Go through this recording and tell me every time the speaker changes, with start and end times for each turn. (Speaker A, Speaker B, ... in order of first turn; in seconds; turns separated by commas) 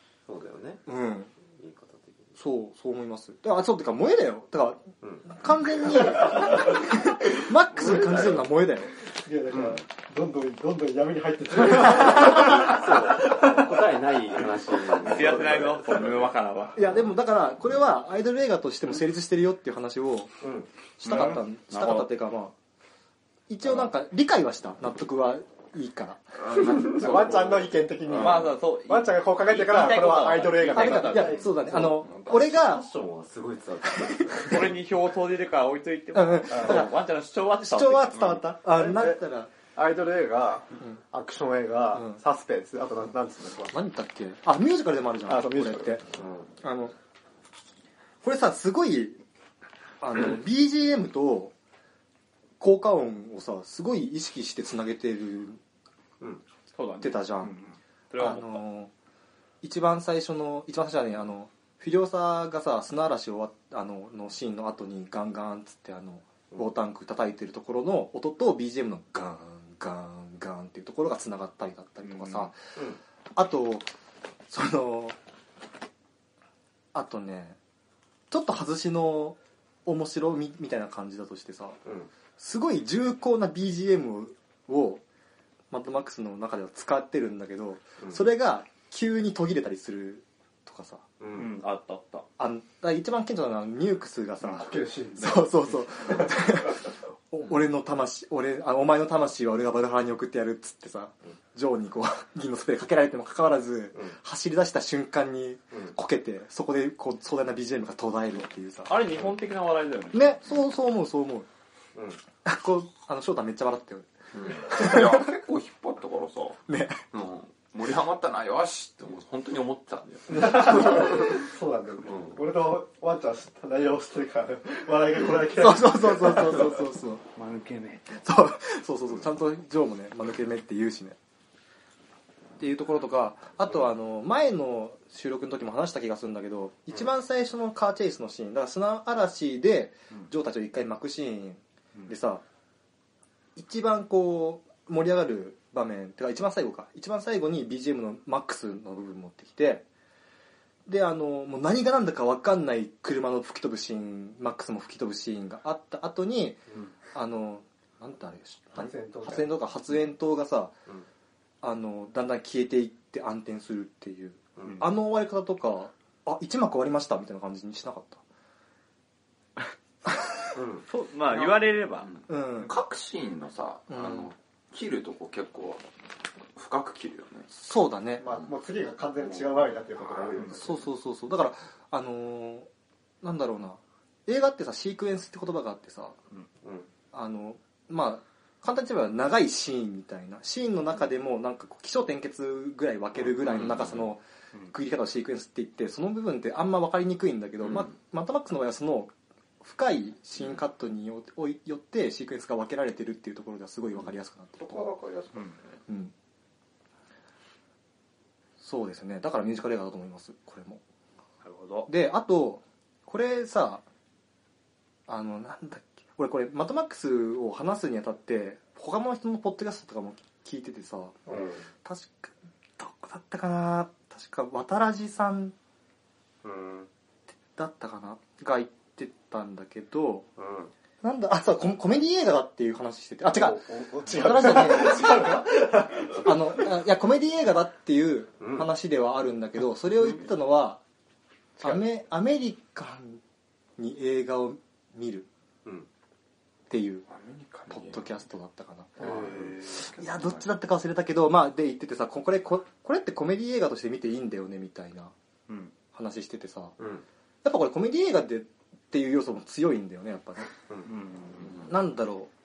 Speaker A: 0.3-0.8, Speaker B: 0.9-1.3, Speaker A: 1.5-2.4, Speaker B: 2.4-8.9, Speaker A: 5.0-5.3, Speaker C: 7.9-8.1, Speaker C: 9.2-13.6, Speaker A: 9.5-9.8, Speaker A: 12.0-16.1, Speaker D: 15.0-16.8, Speaker B: 16.8-20.3, Speaker A: 20.4-20.7, Speaker B: 21.0-22.5, Speaker D: 21.0-22.1, Speaker B: 23.5-26.2, Speaker E: 26.4-28.4, Speaker C: 26.6-31.4, Speaker D: 28.2-32.0, Speaker B: 30.7-32.8, Speaker E: 31.9-32.3, Speaker A: 32.3-34.7, Speaker D: 34.4-38.4, Speaker B: 36.1-37.0, Speaker C: 36.5-36.9, Speaker B: 37.5-39.5, Speaker C: 38.7-39.2, Speaker C: 39.7-43.8, Speaker B: 43.7-46.0, Speaker C: 45.3-46.0, Speaker A: 46.1-46.5, Speaker B: 46.6-46.9, Speaker B: 48.2-49.2, Speaker B: 50.0-51.5, Speaker B: 52.6-55.6, Speaker D: 56.7-58.6, Speaker B: 57.0-57.5, Speaker B: 58.2-58.9, Speaker B: 59.6-72.5, Speaker D: 72.1-72.5, Speaker B: 73.4-73.9, Speaker B: 74.5-75.2, Speaker B: 76.9-77.6, Speaker B: 78.3-81.8, Speaker A: 81.8-82.1, Speaker B: 82.4-85.0, Speaker B: 85.7-91.0, Speaker A: 88.0-88.3, Speaker A: 91.2-91.5, Speaker D: 91.3-92.2, Speaker B: 92.4-109.0, Speaker C: 94.5-95.5, Speaker D: 108.9-110.4, Speaker B: 110.1-111.5, Speaker B: 112.4-114.1, Speaker E: 114.4-116.6, Speaker B: 114.7-115.3, Speaker B: 116.7-117.0, Speaker E: 117.1-121.0, Speaker C: 120.3-126.7, Speaker B: 125.6-127.2, Speaker D: 127.4-128.2, Speaker B: 128.2-131.2, Speaker B: 132.6-142.4, Speaker B: 143.6-149.8, Speaker B: 150.9-156.6, Speaker B: 157.1-160.7, Speaker C: 158.8-159.5, Speaker B: 161.6-168.2, Speaker A: 164.6-164.8, Speaker A: 170.5-170.9, Speaker D: 170.9-172.1, Speaker E: 172.1-175.8, Speaker B: 172.3-172.7, Speaker B: 173.9-174.3, Speaker E: 176.6-177.5, Speaker B: 177.5-178.3, Speaker C: 178.2-180.8, Speaker B: 180.5-182.7, Speaker B: 183.2-186.2, Speaker A: 186.6-186.9, Speaker B: 187.1-204.9, Speaker D: 193.4-194.0, Speaker E: 204.6-205.6, Speaker B: 205.9-206.1, Speaker B: 208.6-210.8, Speaker D: 211.4-211.9, Speaker B: 211.9-213.8, Speaker B: 215.1-225.6, Speaker A: 221.3-221.7, Speaker A: 226.4-226.9, Speaker B: 227.5-230.3, Speaker A: 230.4-230.7, Speaker B: 231.0-235.5, Speaker C: 233.3-236.3, Speaker B: 236.1-240.8, Speaker A: 238.4-238.7, Speaker B: 241.6-243.2, Speaker B: 243.8-245.3, Speaker B: 246.7-247.1, Speaker E: 247.1-247.8, Speaker B: 247.7-249.3, Speaker E: 249.0-250.4, Speaker A: 249.0-249.5, Speaker B: 249.8-255.1, Speaker B: 255.9-256.8, Speaker A: 256.8-257.1, Speaker B: 257.4-260.5, Speaker D: 260.9-261.7, Speaker B: 261.7-262.3